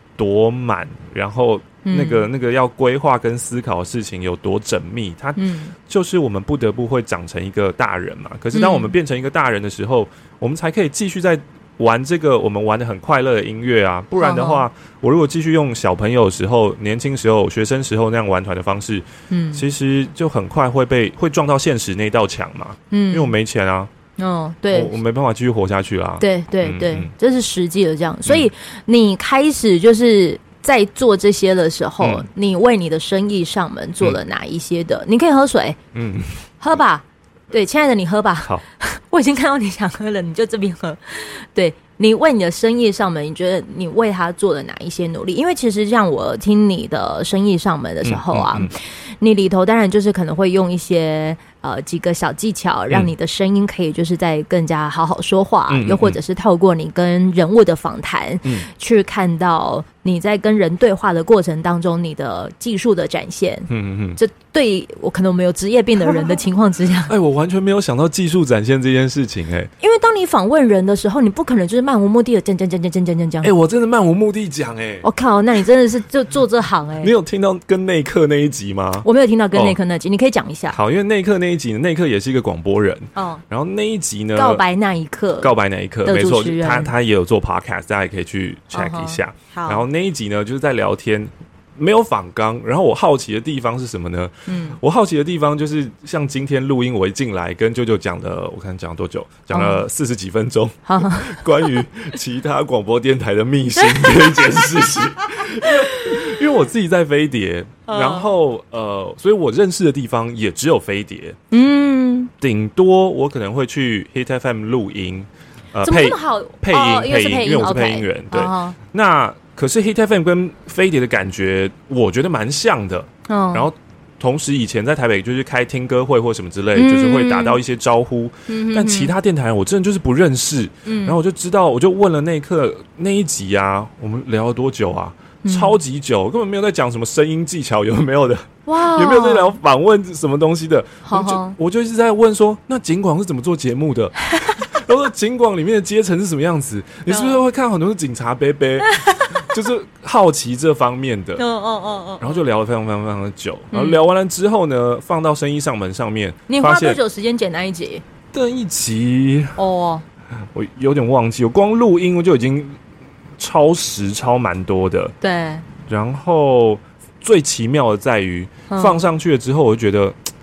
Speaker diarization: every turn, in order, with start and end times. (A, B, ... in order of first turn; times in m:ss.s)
0:00.2-0:23.9 A
0:01.8-0:02.3 B
0:05.4-0:05.7 B
0:08.5-0:08.9 B
0:14.2-0:14.6 B
0:19.3-0:19.6 B
0:22.9-0:23.4 B
0:24.2-0:24.9 B
0:24.7-0:27.1 A
0:26.2-0:35.8 B
0:35.9-0:36.4 A
0:36.6-1:07.1 B
0:48.0-0:48.7 A
0:55.7-0:56.2 A
1:03.7-1:04.2 A
1:07.1-1:09.7 A
1:09.8-1:13.5 B
1:13.4-1:15.0 A
1:15.0-1:17.1 B
1:17.0-1:19.8 A
1:19.0-1:20.8 B
1:20.7-1:24.6 A
1:23.2-1:23.4 B
1:24.4-1:25.5 B
1:25.4-1:51.4 A
1:26.0-1:26.9 B
1:28.7-1:29.8 B
1:34.5-1:34.8 B
1:39.5-1:39.8 B
1:40.9-1:41.4 B
1:43.8-1:46.4 B
1:47.9-1:48.3 B
1:51.5-1:52.3 B
1:52.4-2:31.4 A
1:55.8-1:58.8 B
2:03.3-2:03.7 B
2:06.8-2:07.6 B
2:08.5-2:09.1 B
2:10.8-2:11.2 B
2:15.4-2:15.8 B
2:18.7-2:19.6 B
2:21.0-2:21.6 B
2:24.4-2:24.6 B
2:27.1-2:27.4 B
2:28.8-2:29.5 B
2:31.4-2:32.4 B
2:32.2-2:37.0 A
2:33.7-2:34.0 B
2:36.5-2:38.0 B
2:38.3-2:39.6 A
2:39.6-2:40.0 B
2:40.5-2:42.8 A
2:43.4-2:45.1 A
2:45.2-2:45.7 B
2:45.8-2:50.2 A
2:48.7-2:49.0 B